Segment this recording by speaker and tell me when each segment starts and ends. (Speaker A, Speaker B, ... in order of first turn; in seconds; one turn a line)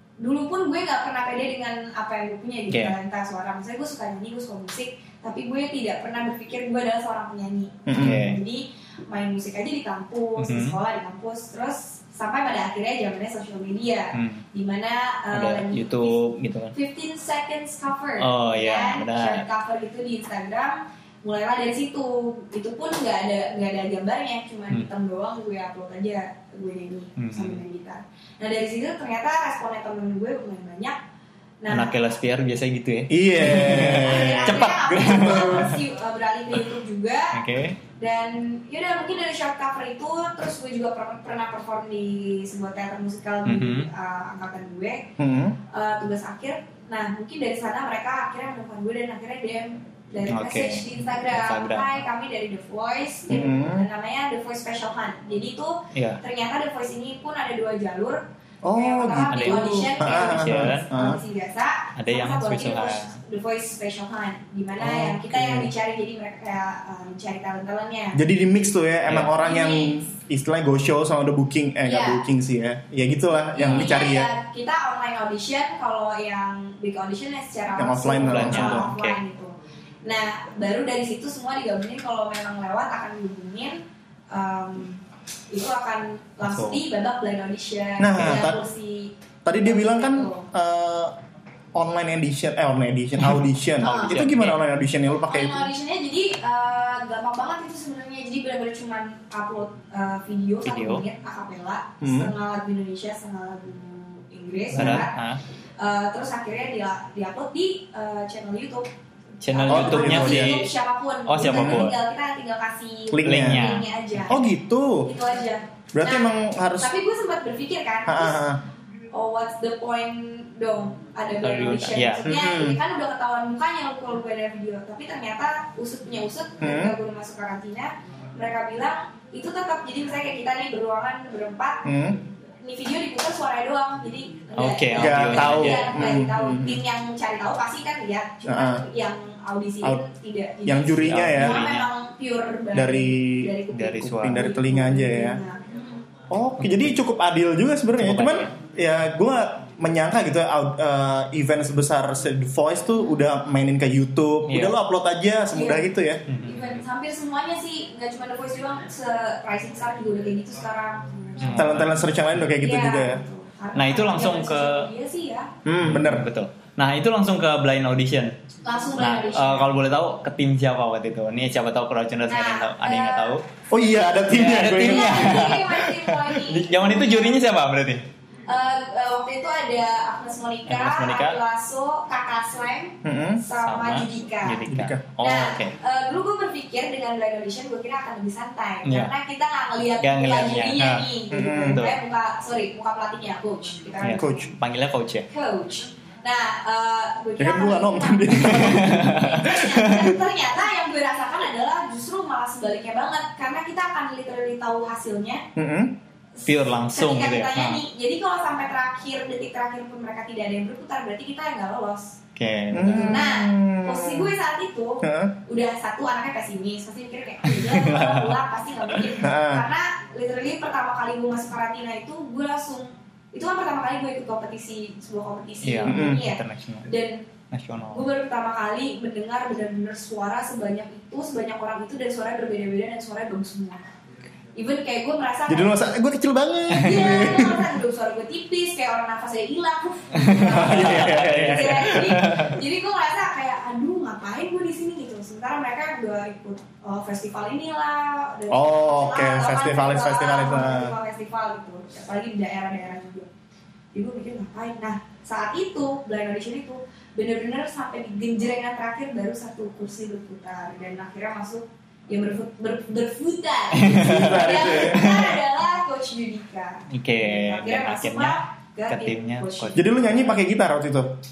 Speaker A: 0.2-16.2
Speaker B: 7.9-8.2
Speaker C: 8.0-8.4
Speaker C: 10.4-10.8
Speaker C: 14.1-14.4
Speaker C: 15.3-16.8
Speaker A: 16.7-31.0
Speaker C: 18.2-19.4
Speaker C: 27.2-27.6
Speaker A: 31.6-32.0
Speaker C: 31.7-35.8
Speaker B: 33.1-35.7
Speaker A: 33.9-37.4
Speaker C: 37.3-37.8
Speaker A: 38.0-45.1
Speaker C: 43.5-43.9
Speaker B: 45.2-45.6
Speaker A: 45.7-58.2
Speaker C: 50.3-52.0
Speaker B: 53.3-53.9
Speaker C: 55.9-56.2
Speaker B: 58.6-61.2
Speaker A: 58.7-68.2
Speaker C: 59.1-60.9
Speaker C: 62.0-63.2
Speaker B: 64.8-65.7
Speaker B: 68.1-74.3
Speaker A: 69.4-70.1
Speaker A: 71.8-72.3
Speaker A: 73.6-79.5
Speaker B: 77.8-78.9
Speaker C: 78.2-79.2
Speaker A: 80.0-83.8
Speaker A: 84.3-90.5
Speaker C: 86.4-86.8
Speaker B: 88.0-88.6
Speaker C: 88.2-88.5
Speaker B: 89.5-91.1
Speaker B: 91.8-95.7
Speaker C: 93.8-94.6
Speaker A: 93.8-94.2
Speaker A: 95.3-105.2
Speaker C: 100.7-101.0
Speaker B: 102.0-102.3
Speaker C: 104.7-105.4
Speaker B: 104.7-105.0
Speaker A: 105.8-108.9
Speaker A: 109.4-114.4
Speaker C: 109.5-110.7
Speaker B: 109.7-110.7
Speaker C: 111.3-112.0
Speaker B: 111.4-111.9
Speaker B: 113.1-113.8
Speaker C: 113.2-113.9
Speaker B: 114.3-115.1
Speaker A: 115.0-118.4
Speaker B: 115.9-116.9
Speaker B: 118.1-118.6
Speaker A: 119.1-131.9
Speaker C: 121.4-122.2
Speaker B: 122.2-122.8
Speaker B: 126.6-127.0
Speaker B: 131.8-132.2
Speaker A: 132.6-146.1
Speaker C: 134.6-136.0
Speaker B: 135.0-136.8
Speaker B: 138.5-138.8
Speaker B: 140.7-141.6
Speaker C: 141.0-141.9
Speaker B: 142.7-145.4
Speaker C: 143.7-144.5
Speaker B: 146.3-156.2
Speaker C: 146.6-147.0
Speaker C: 148.0-148.5
Speaker C: 154.5-154.8
Speaker A: 155.5-155.9
Speaker C: 156.3-156.8
Speaker A: 156.4-161.7
Speaker C: 161.4-161.9
Speaker B: 161.5-163.2
Speaker A: 162.6-165.5
Speaker C: 163.8-164.9
Speaker B: 165.7-166.3
Speaker C: 165.8-168.4
Speaker A: 168.6-169.7
Speaker C: 169.0-173.5
Speaker A: 172.3-173.4
Speaker B: 173.7-175.5
Speaker C: 174.3-178.1
Speaker A: 174.8-177.4
Speaker A: 178.5-184.7
Speaker C: 180.7-181.4
Speaker B: 183.0-183.4
Speaker C: 183.6-185.8
Speaker B: 184.7-185.0
Speaker A: 185.2-194.5
Speaker C: 188.8-189.1
Speaker C: 190.0-192.0
Speaker B: 191.3-191.8
Speaker C: 194.0-195.3
Speaker B: 194.1-194.5
Speaker A: 195.3-205.4
Speaker B: 197.4-199.2
Speaker C: 198.4-200.1
Speaker B: 205.6-206.0
Speaker A: 206.4-212.2
Speaker C: 206.5-207.8
Speaker C: 212.4-213.2
Speaker B: 212.7-214.3
Speaker A: 212.9-227.3
Speaker B: 215.0-215.3
Speaker C: 217.4-218.4
Speaker B: 219.2-219.7
Speaker C: 225.6-226.9
Speaker B: 225.8-226.2
Speaker C: 227.5-228.1
Speaker A: 227.9-233.9
Speaker A: 234.6-235.9
Speaker B: 235.5-237.7
Speaker A: 236.7-253.3
Speaker C: 240.2-242.6
Speaker B: 240.5-242.2
Speaker B: 248.5-250.9
Speaker A: 253.9-269.9
Speaker C: 263.7-265.4
Speaker B: 264.0-265.1
Speaker C: 266.9-269.9
Speaker B: 269.8-271.1